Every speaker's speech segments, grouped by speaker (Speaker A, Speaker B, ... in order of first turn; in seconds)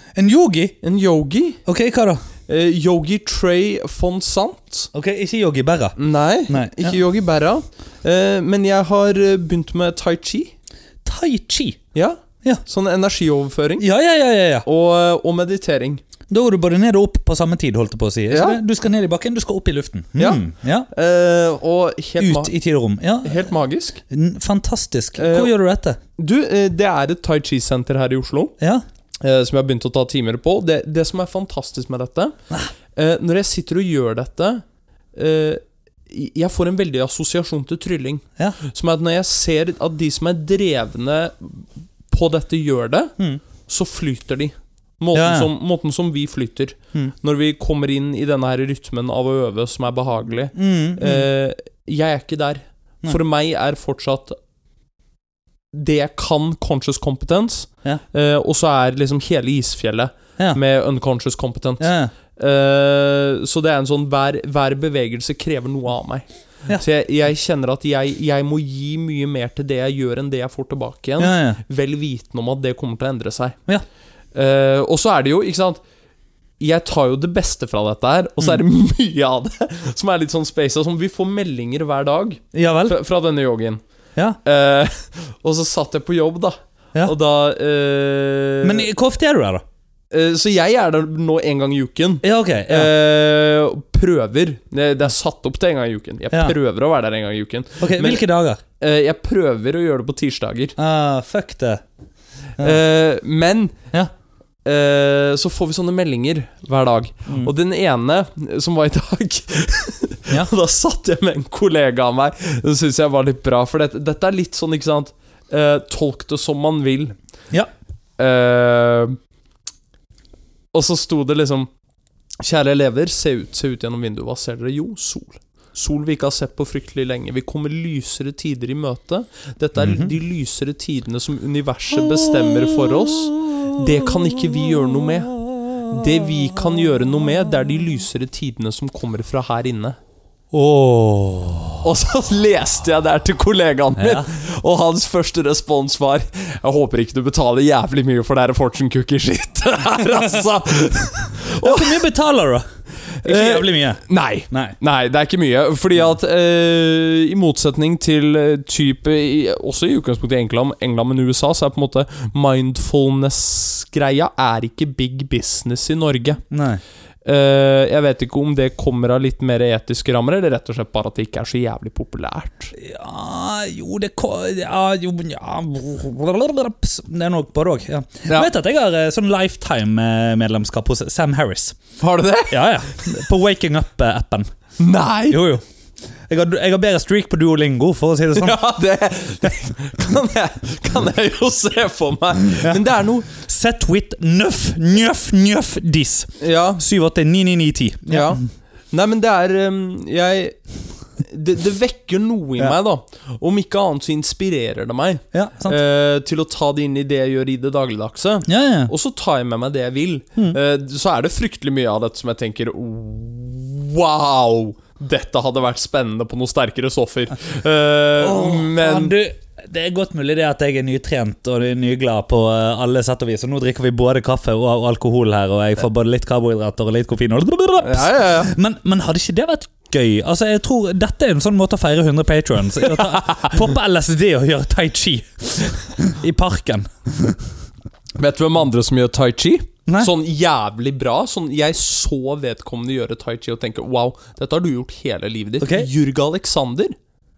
Speaker A: 0.2-0.8, 1.7-2.2, 4.9-6.0, 6.5-7.0, 11.1-11.8, 13.8-14.7, 16.3-20.9, 22.2-23.5, 24.1-26.0, 45.1-45.5, 50.5-51.3, 61.8-62.1, 71.2-71.6, 82.5-83.0, 88.6-89.6, 92.2-92.9, 97.8-98.6, 100.8-101.8, 129.8-130.1, 140.5-141.8, 144.0-144.3, 151.6-152.7, 153.2-154.8, 166.5-166.8, 172.8-181.8, 182.5-184.5, 185.3-185.6, 186.3-188.6, 192.5-198.5, 205.3-205.8, 208.5-208.9, 218.2-237.4, 245.6-245.9
Speaker B: 0.8-1.6, 2.5-4.9, 6.0-10.5, 11.9-13.8, 14.7-16.0, 18.3-18.6, 20.2-22.5, 23.2-24.0, 25.2-25.5, 26.2-28.6, 29.2-32.3, 33.0-54.4, 55.7-73.6, 74.3-75.8, 76.6-83.8, 84.4-88.9, 90.1-98.2, 98.8-100.8, 102.6-103.7, 104.7-117.2, 118.2-119.2, 120.7-121.7, 122.4-140.0, 141.8-152.1, 153.2-166.4, 167.2-172.7, 182.0-182.7, 184.8-185.5, 188.3-193.3, 196.4-196.8, 198.1-198.4, 198.9-200.6, 201.2-219.2, 227.8-228.5, 232.9-233.5, 238.2-246.9